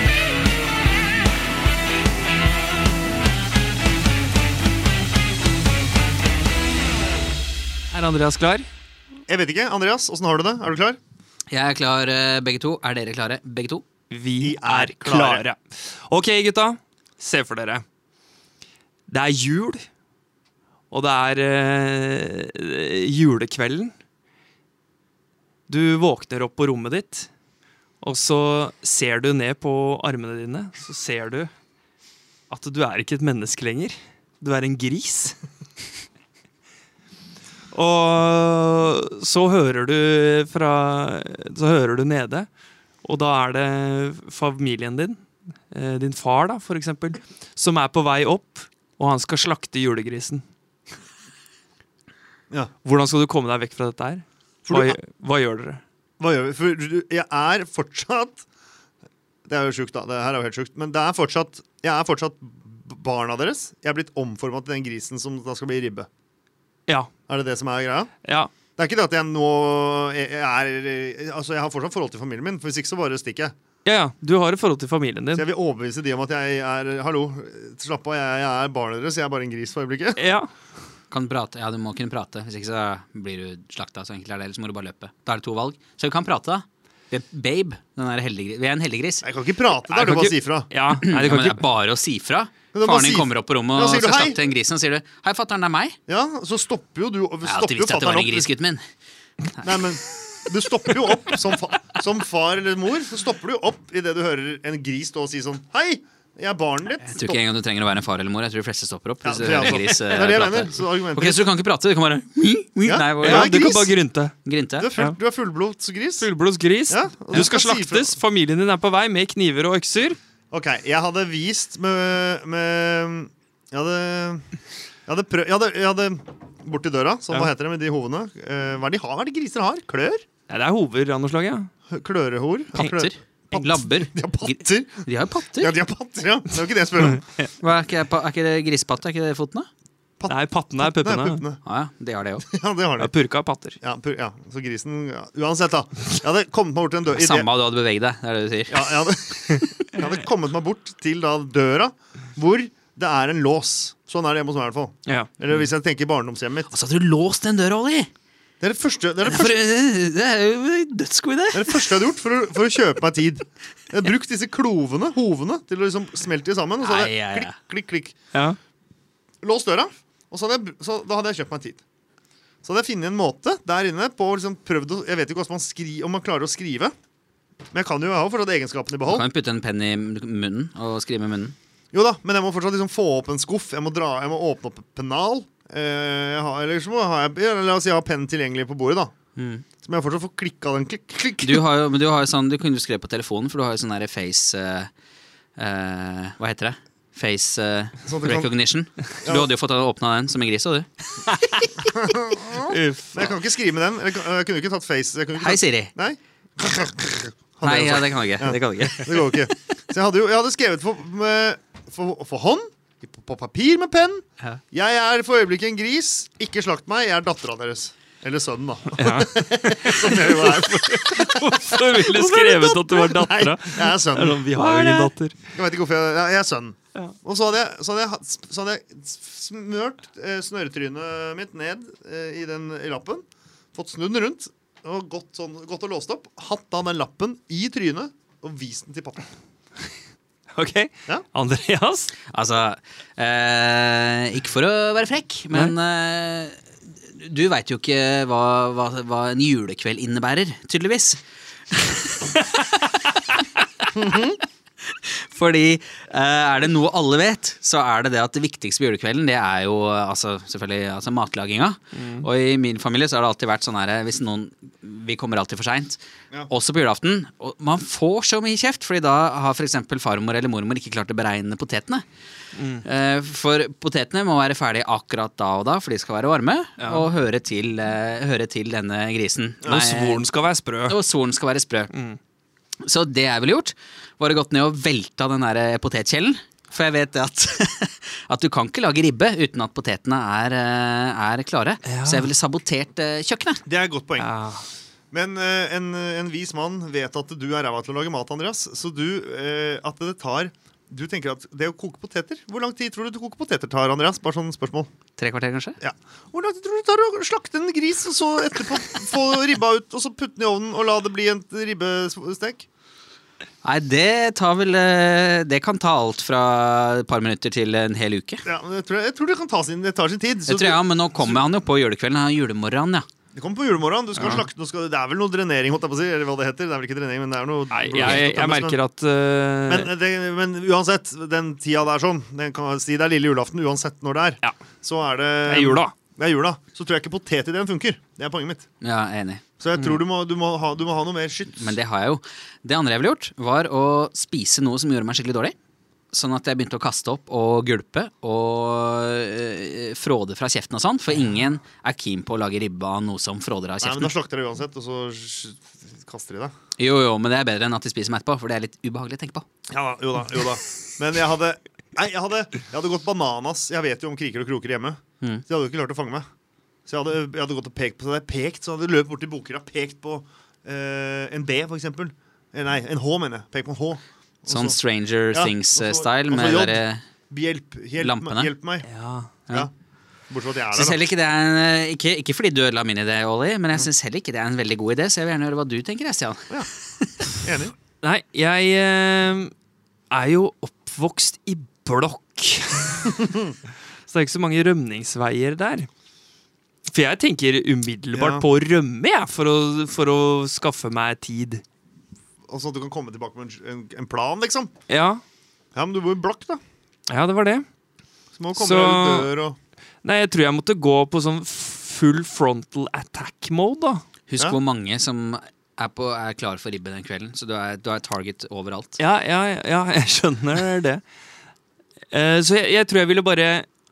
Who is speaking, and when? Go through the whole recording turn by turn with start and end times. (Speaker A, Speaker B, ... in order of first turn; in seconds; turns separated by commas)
Speaker A: 7.9-8.7, Speaker B: 9.3-11.0, Speaker C: 11.5-13.8, Speaker A: 14.1-17.8, Speaker B: 14.4-15.4, Speaker A: 19.1-19.8, Speaker A: 20.9-23.9, Speaker A: 25.7-27.3, Speaker A: 28.0-31.5, Speaker A: 32.5-35.4, Speaker A: 37.7-42.5, Speaker A: 43.0-50.4, Speaker A: 52.8-55.8, Speaker B: 54.7-55.0, Speaker B: 56.2-58.4, Speaker B: 59.5-66.1, Speaker B: 67.3-68.1, Speaker A: 68.2-68.5, Speaker B: 68.8-73.5, Speaker A: 73.8-75.5, Speaker B: 75.3-80.2, Speaker A: 80.2-80.5, Speaker C: 81.1-89.2, Speaker B: 89.2-90.7, Speaker A: 89.9-91.6, Speaker C: 91.0-96.0, Speaker B: 92.7-94.4, Speaker B: 96.1-98.5, Speaker C: 97.4-98.8, Speaker B: 99.6-107.4, Speaker C: 107.0-113.8, Speaker B: 109.2-111.5, Speaker B: 112.8-113.9, Speaker A: 113.2-114.4, Speaker C: 114.4-114.9, Speaker B: 114.8-116.3, Speaker A: 116.2-120.2, Speaker B: 116.9-118.2, Speaker B: 120.5-124.5, Speaker B: 125.1-130.2, Speaker A: 130.5-131.7, Speaker B: 131.9-135.1, Speaker C: 132.8-135.7, Speaker B: 135.6-137.2, Speaker A: 137.1-137.5, Speaker C: 137.6-139.7, Speaker B: 140.2-141.6, Speaker A: 140.3-141.4, Speaker C: 141.6-142.4, Speaker B: 142.4-143.1, Speaker A: 143.0-143.8, Speaker B: 143.8-147.5, Speaker C: 147.2-148.9, Speaker B: 148.7-156.7, Speaker C: 156.7-158.1, Speaker B: 158.6-159.6, Speaker C: 159.2-162.0, Speaker B: 161.5-168.1, Speaker C: 166.8-167.6, Speaker B: 169.4-171.8, Speaker B: 172.6-176.9, Speaker B: 177.7-179.2, Speaker C: 179.1-181.5, Speaker B: 181.9-189.1, Speaker C: 189.3-189.6, Speaker B: 189.8-191.7, Speaker C: 191.4-194.9, Speaker C: 195.6-200.9, Speaker B: 198.0-198.5, Speaker B: 199.2-199.5, Speaker B: 201.8-239.3, Speaker A: 202.6-203.3, Speaker C: 205.3-205.9, Speaker C: 207.6-209.3, Speaker A: 219.0-225.3, Speaker A: 240.5-242.1, Speaker C: 242.3-251.2, Speaker C: 251.7-252.4, Speaker B: 253.9-254.4, Speaker C: 254.0-254.3, Speaker C: 254.9-272.0, Speaker A: 261.9-262.3, Speaker A: 272.6-272.8, Speaker C: 272.8-280.2, Speaker A: 276.8-277.1, Speaker B: 279.6-279.9, Speaker A: 279.6-281.0, Speaker C: 280.9-281.9, Speaker A: 281.9-282.2, Speaker C: 282.8-293.6, Speaker A: 291.8-292.3, Speaker B: 293.6-294.3, Speaker A: 294.2-294.6, Speaker B: 295.1-304.9, Speaker C: 305.2-305.8, Speaker B: 305.8-312.7, Speaker C: 313.6-318.4, Speaker B: 318.4-321.4, Speaker C: 320.4-323.1, Speaker B: 323.3-328.8, Speaker A: 324.2-324.4, Speaker A: 327.7-329.9, Speaker B: 329.7-338.6, Speaker A: 335.4-335.9, Speaker C: 338.8-339.4, Speaker B: 339.6-341.7, Speaker A: 339.8-340.0, Speaker C: 341.6-345.6, Speaker C: 346.1-354.1, Speaker B: 353.8-356.5, Speaker C: 356.8-359.4, Speaker B: 359.7-366.2, Speaker B: 366.9-374.8, Speaker C: 374.5-377.0, Speaker B: 375.3-378.9, Speaker C: 378.0-378.5, Speaker A: 378.8-379.3, Speaker B: 380.3-381.0, Speaker C: 380.7-387.2, Speaker B: 387.3-387.8, Speaker A: 388.0-389.5, Speaker A: 390.1-393.4, Speaker A: 394.1-395.9, Speaker A: 396.9-401.6, Speaker B: 398.1-398.5, Speaker B: 402.5-404.7, Speaker A: 404.9-405.2, Speaker B: 405.7-406.6, Speaker A: 407.1-407.6, Speaker B: 408.3-409.6, Speaker A: 408.6-409.3, Speaker A: 410.0-414.0, Speaker C: 414.3-419.0, Speaker A: 419.0-421.0, Speaker A: 422.1-423.7